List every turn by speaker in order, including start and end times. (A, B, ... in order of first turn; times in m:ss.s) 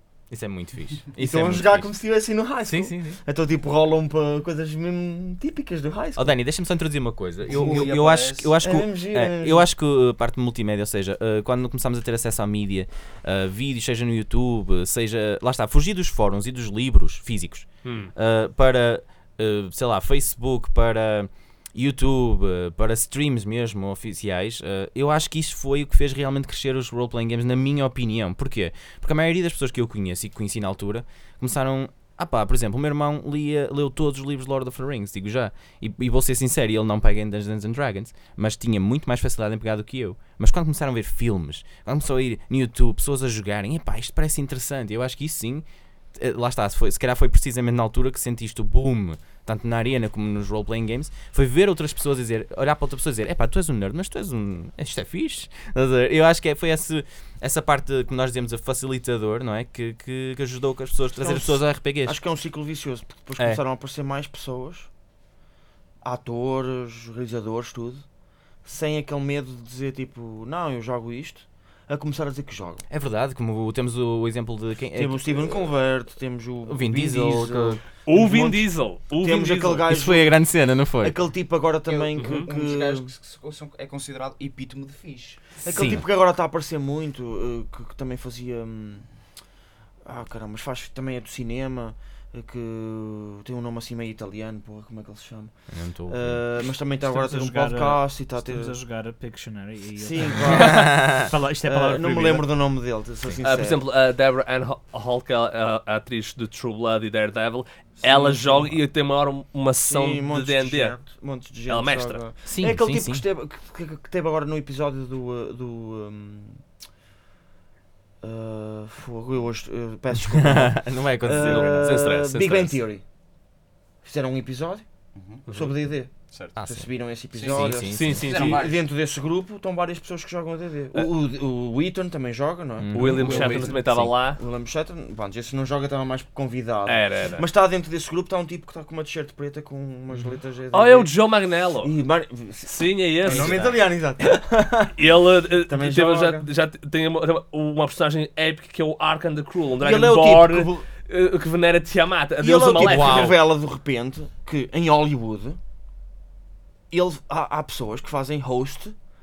0:00.3-0:01.9 A
0:01.2-0:06.4 B
0:02.6-0:03.2 A
0:06.2-1:02.2 A
0:07.4-0:08.6 C
0:07.5-0:07.9 B
0:08.6-0:09.6 B
0:17.8-0:18.1 D
1:01.2-1:04.9 B
1:06.0-1:08.0 B
1:08.6-1:12.8 B
1:12.9-1:15.5 A
1:14.9-1:20.3 B
1:16.6-1:17.8 A
1:18.1-1:19.9 D
1:19.9-1:21.2 A
1:21.0-1:23.1 B
1:21.9-1:26.0 C
1:22.2-1:22.5 D
1:25.6-1:29.0 B
1:25.7-1:26.0 A
1:30.0-1:35.6 B
1:35.7-1:36.4 A
1:36.1-1:38.8 B
1:37.0-1:42.5 E
1:40.0-1:43.8 B
1:40.6-1:41.3 A
1:43.4-1:51.0 D
1:48.0-1:48.8 B
1:49.9-1:56.6 B
1:51.7-1:52.2 D
1:52.4-1:53.2 A
1:58.2-2:03.0 B
2:00.2-2:02.2 A
2:01.3-2:02.8 D
2:04.0-2:04.8 B
2:05.1-2:05.4 C
2:05.5-2:21.1 B
2:06.3-2:06.6 C
2:06.6-2:06.9 A
2:07.3-2:08.8 C
2:07.5-2:08.5 A
2:07.8-2:08.7 D
2:12.8-2:14.1 A
2:12.9-2:14.4 D
2:16.8-2:17.4 D
2:20.7-2:21.9 D
2:21.8-2:26.5 B
2:22.6-2:33.4 D
2:23.3-2:23.8 A
2:29.8-2:30.8 B
2:32.4-2:35.6 B
2:32.8-2:33.3 A
2:36.9-2:38.9 B